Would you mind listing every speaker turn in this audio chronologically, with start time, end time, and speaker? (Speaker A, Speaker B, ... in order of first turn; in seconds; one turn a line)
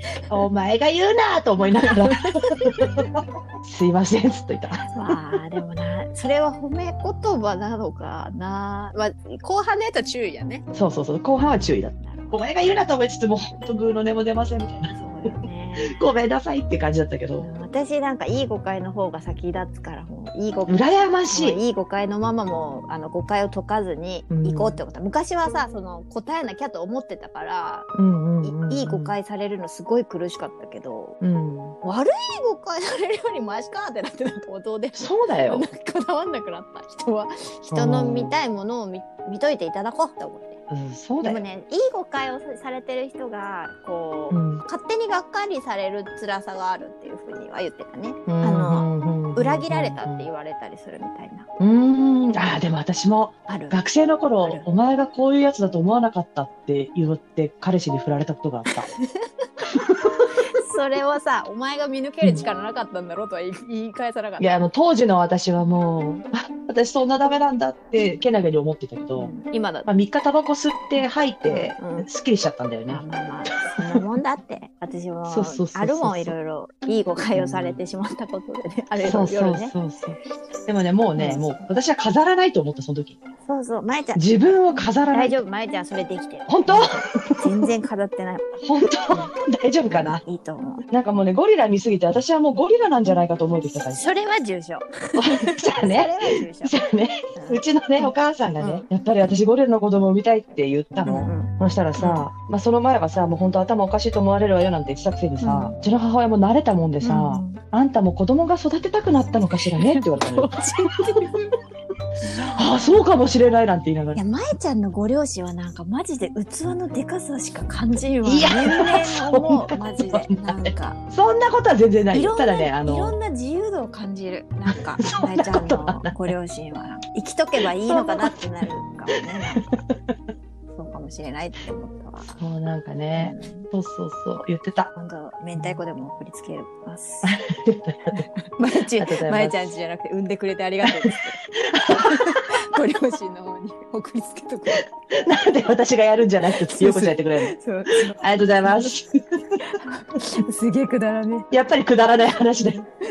Speaker A: 0.3-5.4
Speaker B: 1.8-3.1
Speaker B: 4.9-10.6
Speaker A: 10.7-17.5
Speaker B: 12.0-12.5
Speaker B: 14.9-16.0
Speaker B: 17.4-27.9
Speaker A: 20.6-21.6
Speaker A: 24.3-24.8
Speaker A: 27.9-29.2
Speaker B: 28.4-31.2
Speaker A: 31.2-31.8
Speaker B: 31.8-40.6
Speaker A: 34.9-35.7
Speaker A: 37.7-38.4
Speaker A: 40.7-41.4
Speaker B: 41.2-51.5
Speaker A: 44.3-44.6
Speaker A: 48.3-50.3
Speaker A: 51.6-58.9
Speaker B: 53.5-53.8
Speaker B: 59.0-59.5
Speaker A: 59.6-60.3
Speaker B: 60.5-64.5
Speaker A: 64.4-69.3
Speaker B: 69.2-69.9
Speaker A: 69.9-73.0
Speaker B: 71.5-72.1
Speaker B: 72.9-79.7
Speaker A: 75.2-76.3
Speaker A: 77.3-77.8
Speaker A: 79.0-83.2
Speaker B: 81.2-81.5
Speaker B: 83.5-84.2
Speaker A: 84.1-85.4
Speaker B: 85.1-89.3
Speaker A: 86.5-87.6
Speaker A: 88.6-90.2
Speaker B: 89.9-90.8
Speaker A: 90.9-94.1
Speaker B: 93.9-96.8
Speaker A: 95.2-110.6
Speaker B: 97.3-98.8
Speaker B: 101.0-102.3
Speaker B: 105.4-105.7
Speaker B: 107.0-107.6
Speaker B: 109.8-111.5
Speaker B: 112.2-113.0
Speaker A: 112.5-114.2
Speaker B: 114.1-121.0
Speaker A: 118.2-123.2
Speaker B: 122.1-129.7
Speaker A: 124.7-126.2
Speaker A: 127.8-128.3
Speaker B: 130.7-132.4
Speaker A: 132.3-134.9
Speaker B: 133.2-133.7
Speaker B: 134.9-137.4
Speaker A: 137.2-138.2
Speaker B: 138.1-144.8
Speaker A: 138.9-139.6
Speaker A: 141.6-142.2
Speaker A: 144.8-147.5
Speaker B: 146.7-148.9
Speaker A: 148.1-149.1
Speaker B: 149.7-151.5
Speaker A: 151.5-152.8